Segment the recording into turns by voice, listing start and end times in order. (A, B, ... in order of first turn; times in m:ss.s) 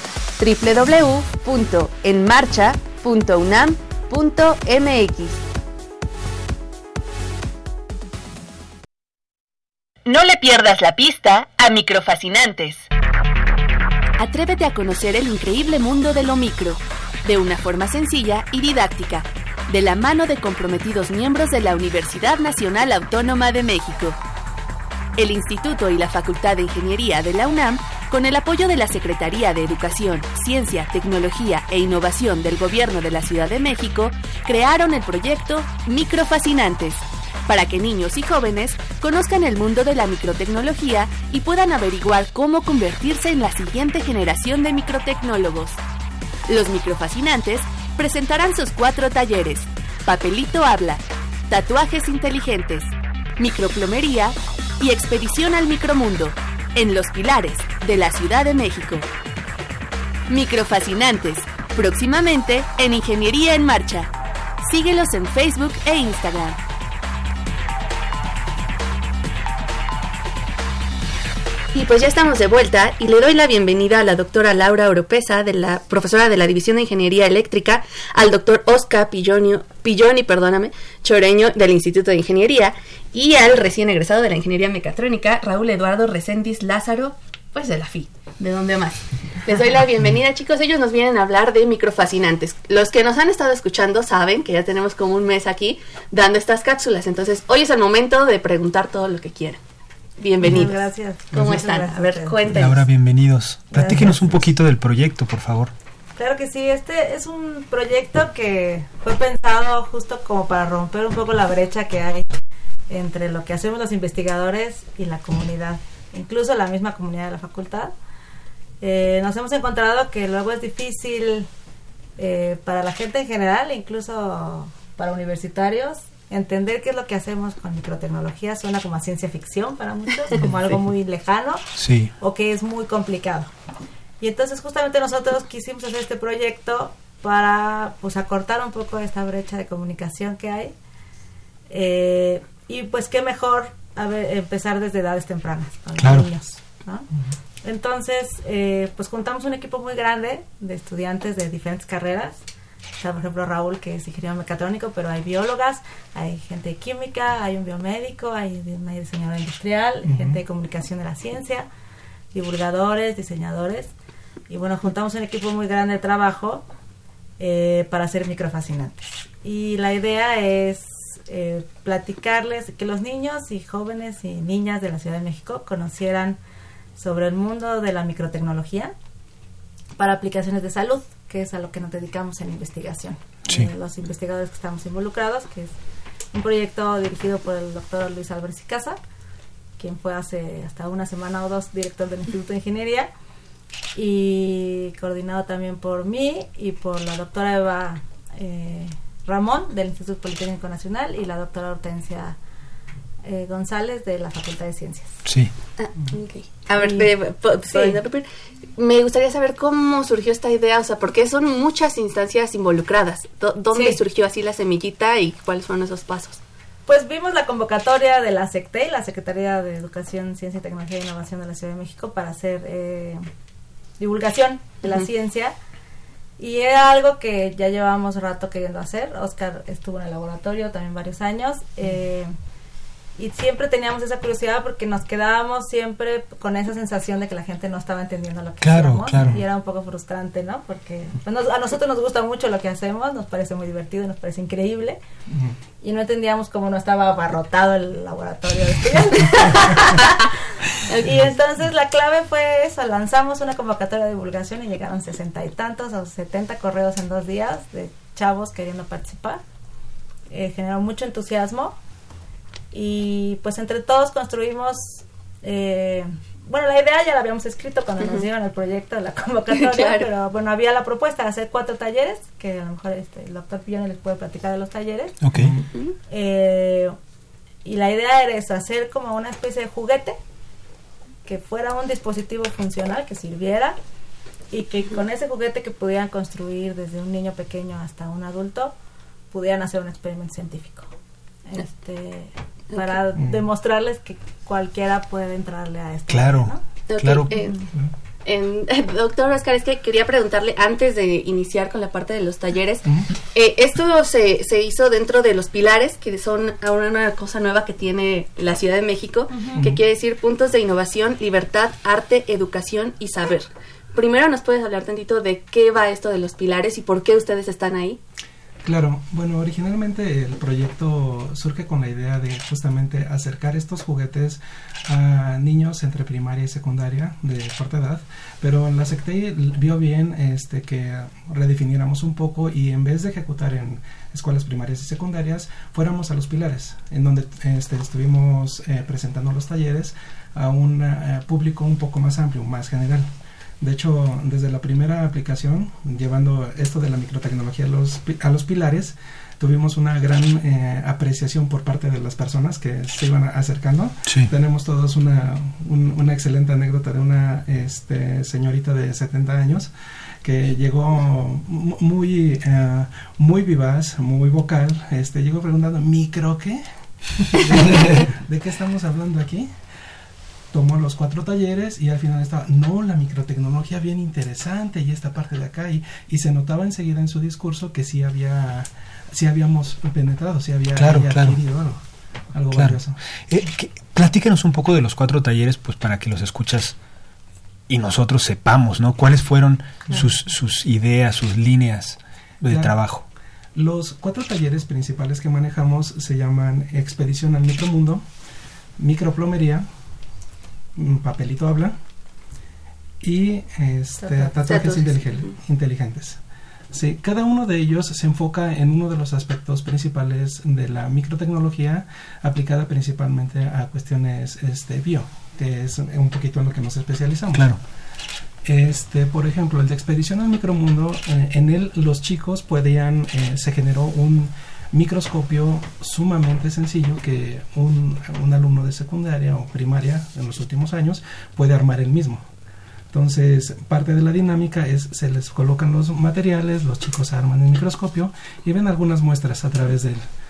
0:00.4-0:05.4 A
0:10.1-0:12.9 A
0:14.2-0:24.2 A
0:25.2-0:45.8 A
0:46.5-0:59.1 A
1:00.3-1:06.6 A
1:11.7-1:39.6 B
1:40.2-1:40.8 B
1:40.4-1:42.4 C
1:41.3-1:42.9 B
1:42.5-1:45.7 D
1:43.7-1:44.3 C
1:46.2-1:52.3 C
1:52.9-1:57.9 C
1:58.8-2:01.5 C
2:02.2-2:13.5 C
2:10.4-2:10.8 D
2:11.8-2:12.1 D
2:14.2-2:20.7 C
2:21.7-2:27.1 C
2:26.0-2:26.3 D
2:27.6-2:32.4 C
2:33.0-2:41.7 C
2:40.0-2:40.4 E
2:42.3-2:43.9 C
2:44.5-2:46.6 C
2:47.4-2:56.4 C
2:57.0-2:58.9 C
3:00.0-3:05.8 C
3:06.3-3:09.0 C
3:09.8-3:13.1 C
3:14.0-3:22.4 C
3:23.2-3:25.2 C
3:25.2-3:25.5 D
3:25.8-3:28.2 B
3:26.8-3:27.1 C
3:27.7-3:28.0 C
3:28.8-3:36.4 B
3:33.7-3:34.0 C
3:36.9-3:43.2 C
3:44.0-3:45.5 C
3:46.4-3:52.3 C
3:53.2-4:05.0 C
3:58.6-3:59.4 D
4:05.3-4:05.6 E
4:05.8-4:10.3 C
4:11.0-4:19.4 C
4:20.3-4:21.8 C
4:22.7-4:35.2 C
4:29.5-4:30.1 B
4:35.2-4:35.6 D
4:35.3-4:35.6 E
4:36.1-4:37.0 C
4:37.6-4:40.2 C
4:41.2-4:43.8 C
4:44.5-4:48.7 C
4:49.3-4:50.9 C
4:51.5-4:56.6 C
4:53.2-4:53.5 E
4:56.1-4:57.4 D
4:56.9-4:57.6 B
4:58.2-5:18.0 B
5:09.3-5:09.6 C
5:09.6-5:09.8 E
5:18.6-5:43.1 E
5:43.6-5:59.7 E
6:00.2-6:06.6 E
6:07.2-6:09.5 E
6:10.5-6:21.8 E
6:20.8-6:21.4 D
6:22.3-6:23.0 E
6:22.5-6:26.8 D
6:27.7-6:33.0 D
6:32.5-6:32.8 E
6:33.6-6:38.0 E
6:38.8-6:39.7 E
6:40.8-6:41.8 E
6:43.0-6:57.6 E
6:44.0-6:44.8 C
6:57.3-6:57.6 D
6:58.4-7:12.3 E
7:12.9-7:20.1 E